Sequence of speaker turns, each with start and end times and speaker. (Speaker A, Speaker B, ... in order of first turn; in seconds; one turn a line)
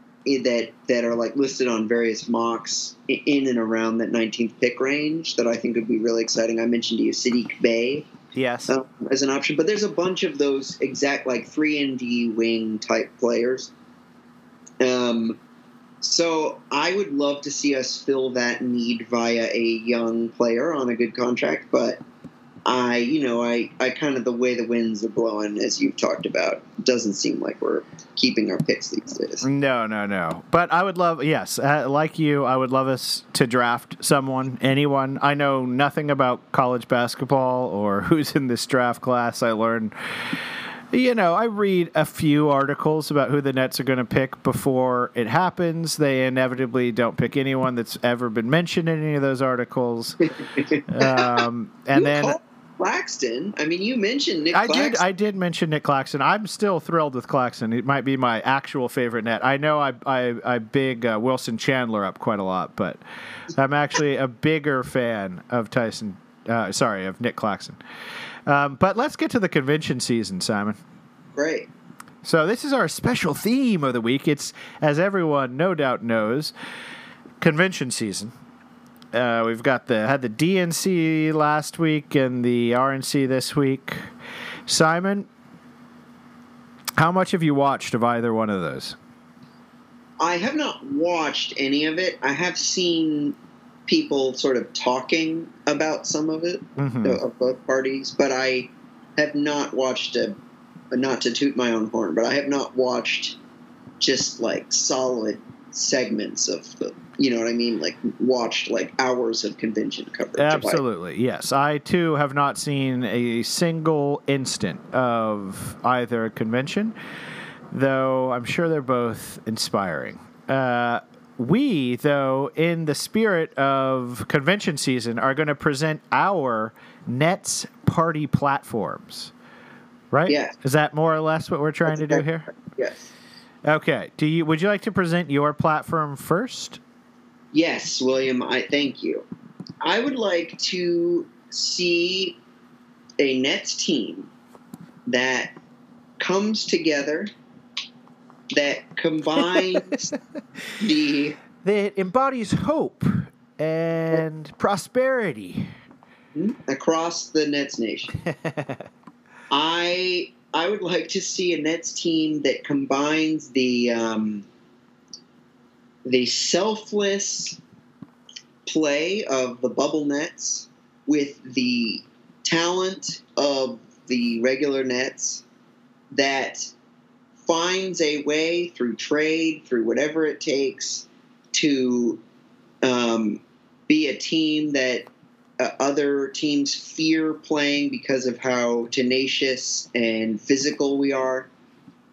Speaker A: 0.2-8.1
Speaker B: 8.3-8.8
Speaker A: 8.7-13.7
Speaker A: 14.8-15.4
Speaker A: 16.0-22.0
Speaker A: 22.6-29.4
Speaker B: 29.4-50.2
Speaker A: 50.5-55.0
Speaker B: 50.9-52.4
Speaker B: 54.5-63.0
Speaker B: 63.5-67.8
Speaker B: 68.5-70.8
Speaker A: 71.3-71.7
Speaker B: 72.2-76.5
Speaker B: 77.4-78.3
Speaker B: 79.1-84.1
Speaker B: 84.7-85.3
Speaker B: 87.0-89.0
Speaker A: 90.2-100.3
Speaker B: 96.8-97.2
Speaker A: 100.9-103.4
Speaker A: 104.0-110.8
Speaker B: 110.4-116.9
Speaker B: 117.7-129.3
Speaker B: 130.1-132.5
Speaker A: 130.3-130.5
Speaker A: 131.9-132.2
Speaker A: 132.7-133.1
Speaker B: 133.6-136.8
Speaker A: 137.5-139.2
Speaker A: 139.8-142.4
Speaker A: 143.2-144.3
Speaker A: 145.1-145.6
Speaker A: 146.2-147.3
Speaker A: 148.5-150.1
Speaker B: 149.4-150.0
Speaker A: 150.8-151.4
Speaker B: 151.6-155.7
Speaker A: 156.3-158.2
Speaker B: 158.2-158.8
Speaker A: 159.5-164.4
Speaker A: 166.0-167.6
Speaker A: 168.7-175.4
Speaker A: 176.1-176.7
Speaker A: 177.4-182.2
Speaker A: 182.8-185.1
Speaker A: 185.6-191.5